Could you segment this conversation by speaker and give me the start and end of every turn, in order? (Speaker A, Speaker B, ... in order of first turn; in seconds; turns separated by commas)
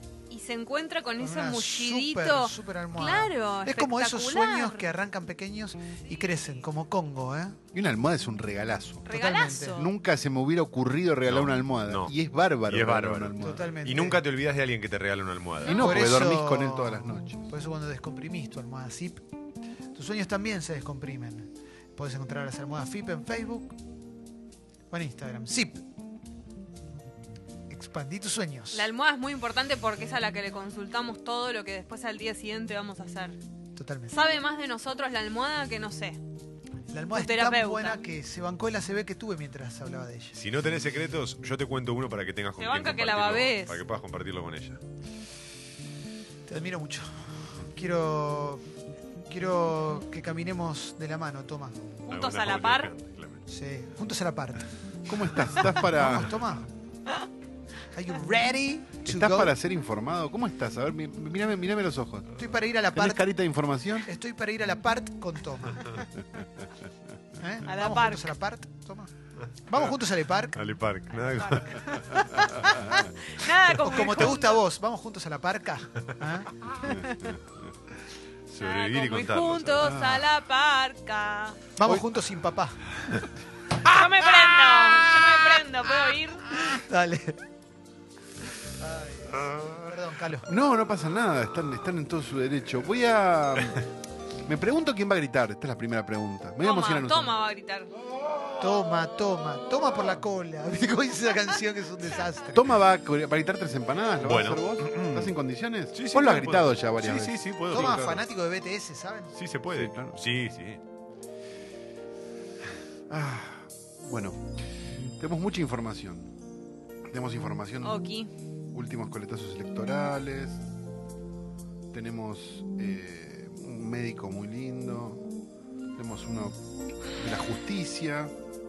Speaker A: 0.3-4.9, Speaker B: 1.2-7.6, Speaker C: 7.7-9.1, Speaker A: 9.1-9.9, Speaker B: 9.1-9.8, Speaker C: 9.7-13.7, Speaker D: 11.3-12.1, Speaker D: 12.7-15.8, Speaker B: 13.4-14.2, Speaker C: 15.6-17.4, Speaker A: 15.7-15.9, Speaker B: 15.7-19.2, Speaker B: 19.9-23.8, Speaker B: 24.9-25.8, Speaker B: 27.7-28.9, Speaker A: 28.7-33.4, Speaker B: 33.8-34.2, Speaker A: 34.1-36.2, Speaker B: 36.9-40.4, Speaker A: 37.1-38.0, Speaker D: 40.4-44.8, Speaker A: 42.6-43.8, Speaker B: 46.5-48.6, Speaker B: 49.3-51.8, Speaker A: 52.1-52.9, Speaker D: 52.1-53.4, Speaker B: 53.5-54.6, Speaker C: 55.1-56.4, Speaker B: 55.8-56.7, Speaker B: 57.9-59.5, Speaker C: 59.1-62.3, Speaker B: 62.4-63.3, Speaker C: 62.9-64.1, Speaker B: 64.0-66.0, Speaker B: 67.4-69.1, Speaker A: 67.7-68.2, Speaker B: 69.7-70.6, Speaker D: 70.5-72.5, Speaker A: 72.9-74.6, Speaker B: 73.8-77.1, Speaker D: 78.5-79.9, Speaker A: 78.6-81.6, Speaker C: 79.8-80.3, Speaker B: 81.8-82.8, Speaker A: 83.8-86.6, Speaker B: 86.7-87.4, Speaker B: 88.8-90.5, Speaker C: 90.5-93.9, Speaker C: 94.5-97.4, Speaker A: 96.6-97.9, Speaker B: 98.6-102.7, Speaker C: 102.5-108.1, Speaker D: 104.2-105.3, Speaker D: 105.9-108.2, Speaker B: 107.7-109.3, Speaker D: 109.3-110.8, Speaker C: 109.7-110.2, Speaker C: 113.1-114.4, Speaker C: 115.2-116.3, Speaker C: 117.1-118.0, Speaker A: 117.8-118.3, Speaker C: 118.7-120.6, Speaker C: 121.9-125.2, Speaker C: 126.0-126.5, Speaker C: 127.2-128.3